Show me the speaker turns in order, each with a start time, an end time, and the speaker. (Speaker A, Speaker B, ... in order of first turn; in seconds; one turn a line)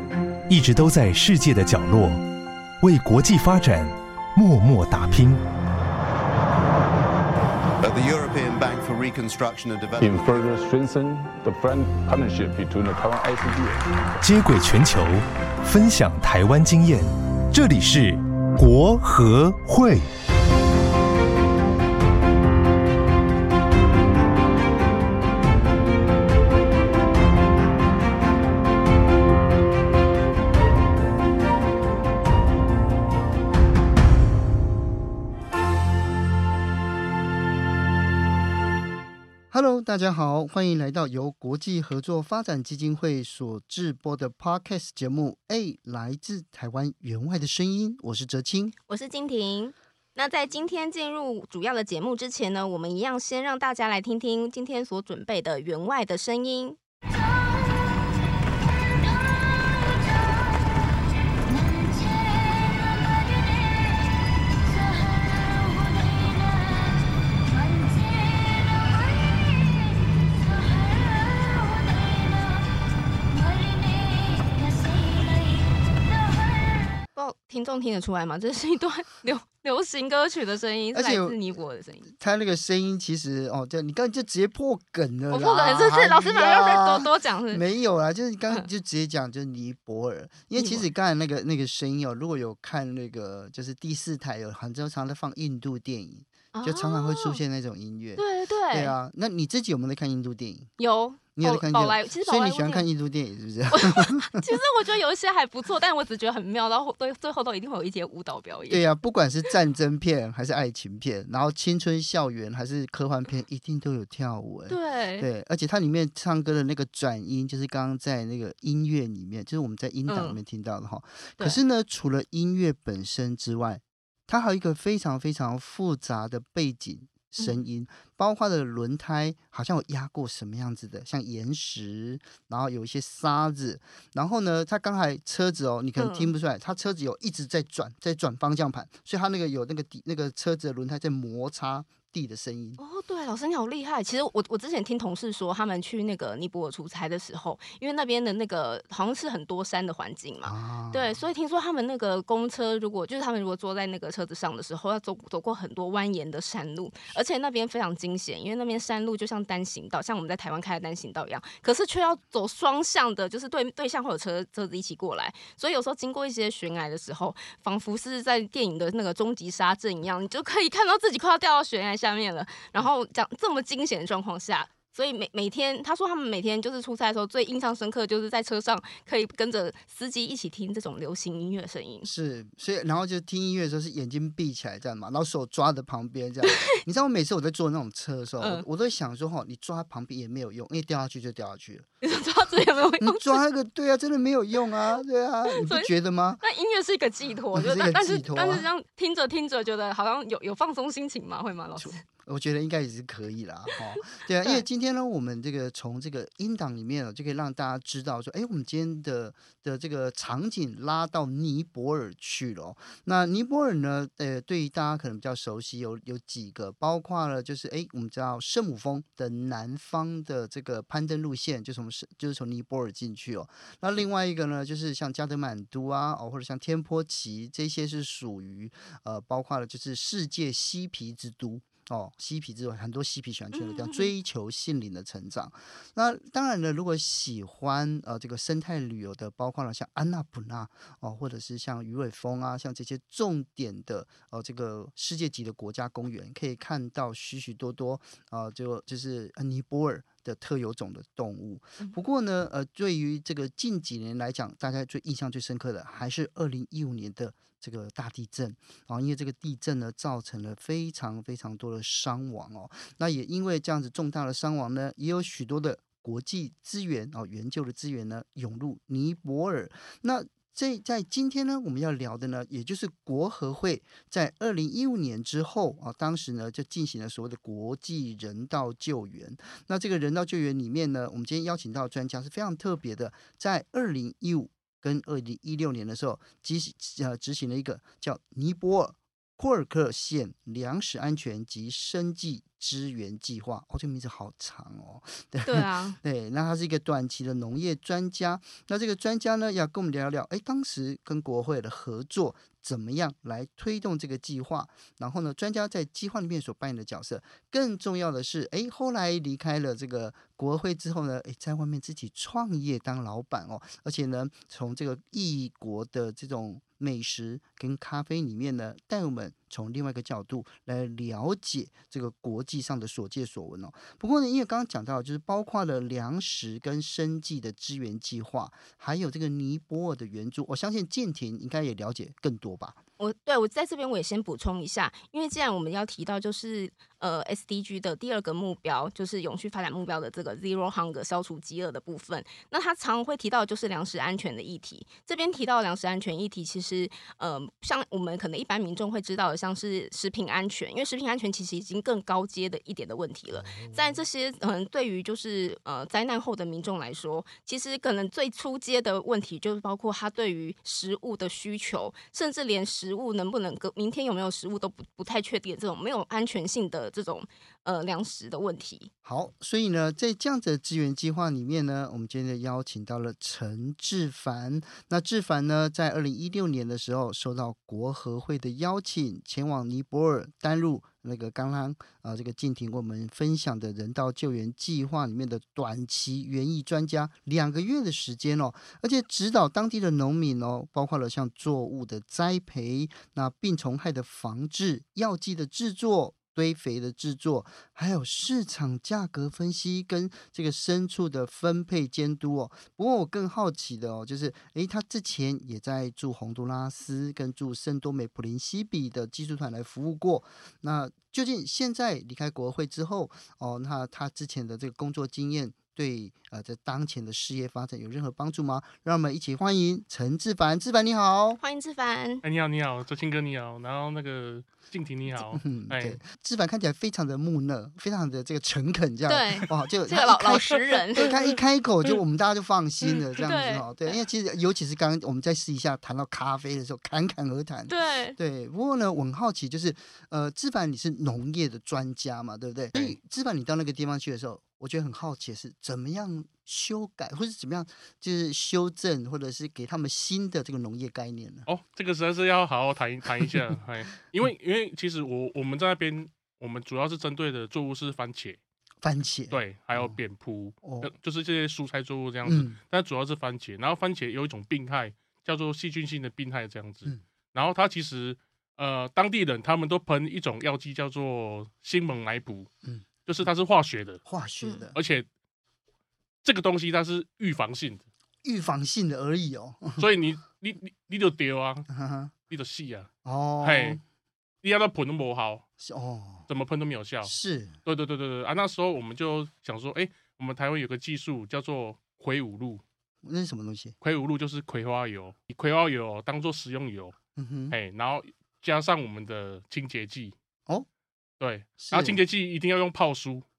Speaker A: 0.5-2.2
Speaker A: 2.8-5.4
Speaker B: 7.8-10.5
Speaker C: 10.0-14.2
Speaker A: 14.2-20.1
Speaker D: 39.5-48.8
Speaker E: 48.9-56.8
Speaker E: 77.2-82.1
Speaker D: 80.9-81.4
Speaker D: 82.1-100.7
Speaker E: 85.3-87.6
Speaker E: 90.6-90.9
Speaker E: 96.5-97.4
Speaker E: 98.2-99.0
Speaker E: 100.8-102.8
Speaker D: 101.3-104.5
Speaker E: 103.7-108.8
Speaker D: 108.7-142.8
Speaker E: 114.7-115.3
Speaker E: 120.1-120.4
Speaker E: 127.4-127.6
Speaker E: 136.0-136.3
Speaker E: 142.8-182.1
Speaker D: 150.4-151.2
Speaker D: 182.0-191.9
Speaker E: 186.4-186.8
Speaker E: 188.4-188.7
Speaker E: 192.0-193.4
Speaker D: 193.0-196.4
Speaker E: 195.5-202.0
Speaker D: 197.5-198.7
Speaker D: 201.8-332.8
Speaker E: 233.5-234.1
Speaker E: 295.5-296.0
Speaker E: 333.0-368.9
Speaker D: 353.3-354.0
Speaker D: 369.0-421.4
Speaker E: 421.4-422.2
Speaker F: 422.2-426.0
Speaker D: 425.3-451.5
Speaker E: 429.1-431.1
Speaker E: 433.2-433.9
Speaker E: 437.7-438.2
Speaker F: 451.5-458.4
Speaker D: 458.8-459.9
Speaker F: 459.3-472.5
Speaker D: 460.6-460.9
Speaker D: 462.2-462.6
Speaker F: 473.1-474.0
Speaker D: 474.1-474.8
Speaker F: 474.8-475.1
Speaker F: 476.2-477.8
Speaker D: 478.2-479.9
Speaker F: 479.8-481.7
Speaker D: 481.7-482.1
Speaker F: 482.3-482.9
Speaker D: 483.0-483.8
Speaker F: 483.4-483.8
Speaker F: 484.4-485.5
Speaker D: 485.6-486.3
Speaker F: 486.3-492.6
Speaker D: 487.0-487.6
Speaker D: 493.0-493.8
Speaker F: 493.8-497.0
Speaker D: 497.2-497.6
Speaker F: 497.5-500.1
Speaker F: 501.2-503.2
Speaker D: 501.6-502.0